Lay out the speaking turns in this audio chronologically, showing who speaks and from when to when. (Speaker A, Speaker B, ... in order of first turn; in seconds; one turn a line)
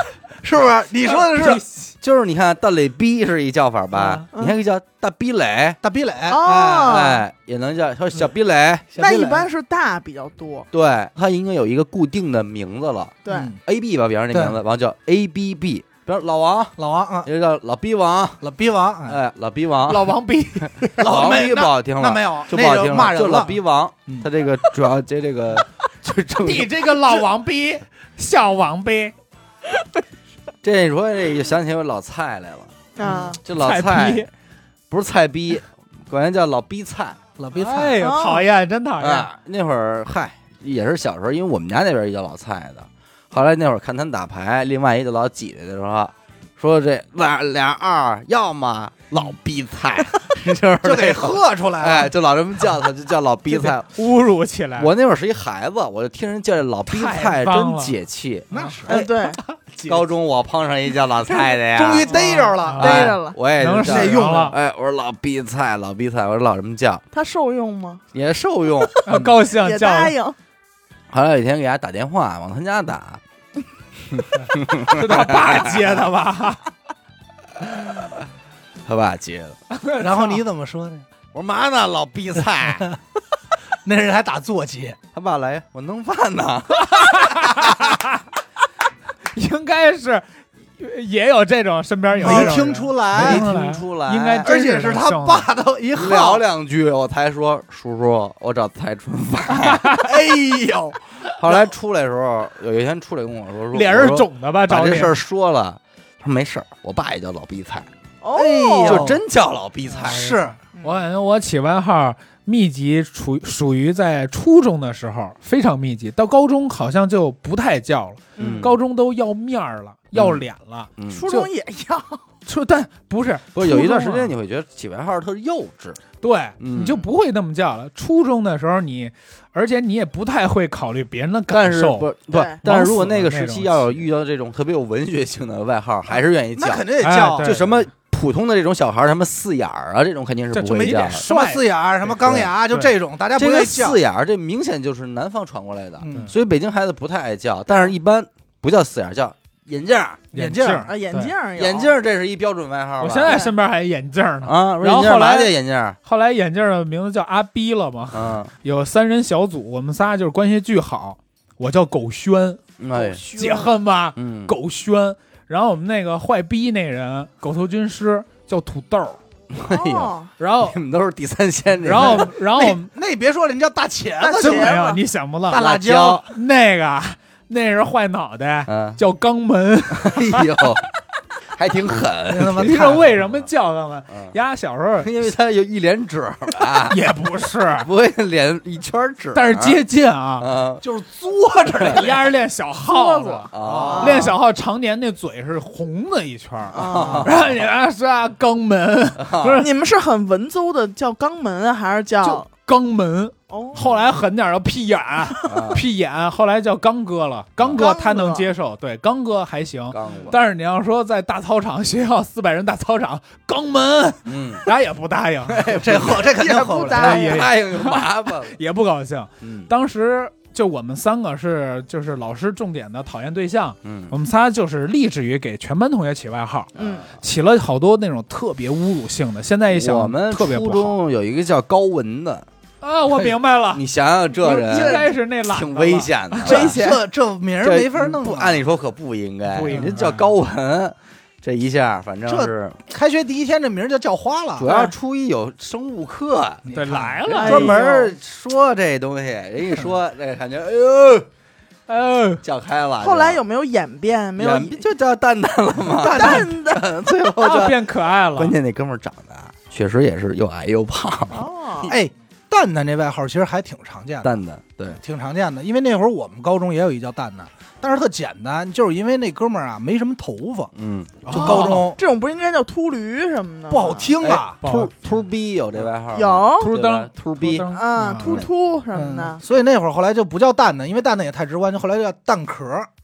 Speaker A: 0.4-1.6
Speaker B: 1.1-1.9
Speaker C: 2.0-5.8
Speaker B: 3.9-4.2
Speaker A: 5.8-7.0
Speaker D: 6.3-7.2
Speaker C: 6.8-8.9
Speaker A: 8.9-9.5
Speaker D: 9.0-10.7
Speaker C: 10.7-18.4
Speaker D: 13.2-13.5
Speaker A: 13.3-13.6
Speaker A: 14.3-14.6
Speaker A: 16.8-17.3
Speaker A: 18.4-19.2
Speaker C: 19.1-26.9
Speaker B: 19.9-21.1
Speaker A: 21.0-23.6
Speaker B: 26.4-29.1
Speaker C: 30.6-32.7
Speaker D: 33.0-33.4
Speaker C: 33.4-34.3
Speaker B: 33.5-34.3
Speaker C: 34.9-37.2
Speaker A: 37.4-38.0
Speaker B: 37.5-39.3
Speaker D: 38.0-38.4
Speaker C: 39.0-54.0
Speaker A: 50.8-52.1
Speaker B: 53.5-54.9
Speaker C: 54.8-59.1
Speaker B: 56.9-58.0
Speaker B: 58.5-58.8
Speaker A: 58.5-59.1
Speaker D: 58.9-59.4
Speaker A: 59.8-60.0
Speaker C: 59.9-62.2
Speaker A: 61.4-63.2
Speaker B: 62.1-64.6
Speaker D: 62.4-63.4
Speaker C: 62.8-67.0
Speaker A: 63.9-64.5
Speaker D: 67.1-68.0
Speaker C: 68.1-69.0
Speaker B: 69.0-70.2
Speaker D: 69.6-70.4
Speaker C: 71.1-73.2
Speaker C: 74.0-75.9
Speaker B: 74.8-76.6
Speaker C: 78.8-79.6
Speaker B: 79.7-80.4
Speaker A: 80.0-81.1
Speaker C: 81.3-82.9
Speaker A: 83.8-85.0
Speaker C: 85.1-87.8
Speaker B: 86.8-88.2
Speaker B: 89.3-95.5
Speaker A: 92.2-93.5
Speaker C: 92.2-92.6
Speaker C: 93.1-94.5
Speaker A: 94.4-96.4
Speaker C: 95.9-100.0
Speaker B: 99.6-100.1
Speaker A: 100.0-101.7
Speaker C: 101.4-107.9
Speaker B: 103.7-105.2
Speaker D: 108.2-109.1
Speaker A: 108.3-109.2
Speaker C: 108.8-110.3
Speaker B: 109.9-121.5
Speaker A: 110.0-110.6
Speaker D: 110.7-111.0
Speaker D: 118.4-118.7
Speaker C: 118.4-118.8
Speaker C: 120.1-120.5
Speaker C: 121.0-121.3
Speaker D: 121.1-122.2
Speaker B: 122.5-124.3
Speaker C: 123.5-126.0
Speaker B: 126.2-132.1
Speaker C: 126.6-127.1
Speaker C: 131.5-136.9
Speaker D: 132.3-132.6
Speaker B: 132.6-134.0
Speaker A: 136.5-137.6
Speaker B: 137.0-137.8
Speaker C: 137.4-141.3
Speaker B: 140.5-142.1
Speaker A: 140.7-144.0
Speaker C: 142.2-142.5
Speaker C: 143.3-150.3
Speaker A: 146.0-146.3
Speaker A: 150.3-150.9
Speaker B: 150.3-151.3
Speaker D: 150.9-151.9
Speaker C: 151.6-153.5
Speaker B: 153.0-162.6
Speaker C: 154.4-156.0
Speaker C: 158.1-158.5
Speaker C: 162.8-163.2
Speaker D: 162.9-163.7
Speaker B: 163.3-169.2
Speaker C: 164.2-164.6
Speaker C: 169.5-172.3
Speaker D: 169.6-170.3
Speaker B: 170.4-170.8
Speaker B: 171.8-172.9
Speaker A: 172.0-174.8
Speaker D: 174.2-175.0
Speaker B: 174.4-180.8
Speaker A: 175.5-176.2
Speaker C: 175.5-176.2
Speaker C: 178.7-179.0
Speaker C: 180.0-180.8
Speaker C: 181.6-182.9
Speaker A: 182.3-183.1
Speaker B: 182.6-185.1
Speaker C: 185.0-187.0
Speaker B: 186.9-187.9
Speaker C: 187.8-189.8
Speaker B: 189.3-190.5
Speaker C: 190.4-190.8
Speaker A: 190.8-192.3
Speaker B: 191.9-199.7
Speaker D: 192.9-194.3
Speaker C: 193.5-194.3
Speaker A: 193.6-194.3
Speaker D: 196.7-197.3
Speaker C: 196.7-197.5
Speaker A: 196.9-197.3
Speaker C: 199.2-199.7
Speaker D: 199.6-202.5
Speaker B: 202.2-215.7
Speaker D: 203.5-204.1
Speaker C: 205.5-205.8
Speaker C: 207.6-207.8
Speaker D: 207.7-208.5
Speaker C: 209.9-210.4
Speaker C: 214.2-214.7
Speaker C: 215.5-216.3
Speaker A: 215.7-217.2
Speaker D: 216.1-217.5
Speaker B: 216.9-230.9
Speaker C: 216.9-218.6
Speaker C: 219.4-219.7
Speaker C: 223.8-224.2
Speaker C: 226.8-227.1
Speaker D: 226.8-227.1
Speaker C: 229.7-232.5
Speaker B: 232.8-233.8
Speaker C: 233.7-236.8
Speaker B: 234.4-236.8
Speaker D: 234.5-235.1
Speaker D: 236.4-237.0
Speaker A: 236.5-238.6
Speaker C: 237.6-242.8
Speaker B: 239.5-240.3
Speaker A: 242.3-244.7
Speaker C: 244.6-246.7
Speaker D: 244.7-244.9
Speaker A: 246.7-247.4
Speaker B: 246.7-247.8
Speaker C: 247.3-251.3
Speaker D: 247.3-248.2
Speaker B: 251.9-252.4
Speaker C: 252.4-253.4
Speaker D: 253.0-254.9
Speaker C: 254.4-261.5
Speaker D: 255.9-256.9
Speaker B: 257.4-258.6
Speaker D: 261.3-262.0
Speaker A: 261.8-264.3
Speaker C: 264.2-265.0
Speaker A: 264.9-270.7
Speaker C: 270.8-271.3
Speaker B: 271.2-271.9
Speaker A: 271.3-272.0
Speaker D: 271.3-274.2
Speaker A: 273.7-274.6
Speaker C: 274.2-277.7
Speaker B: 274.6-274.9
Speaker D: 276.1-276.7
Speaker B: 276.6-278.5
Speaker D: 277.7-279.4
Speaker A: 278.2-282.9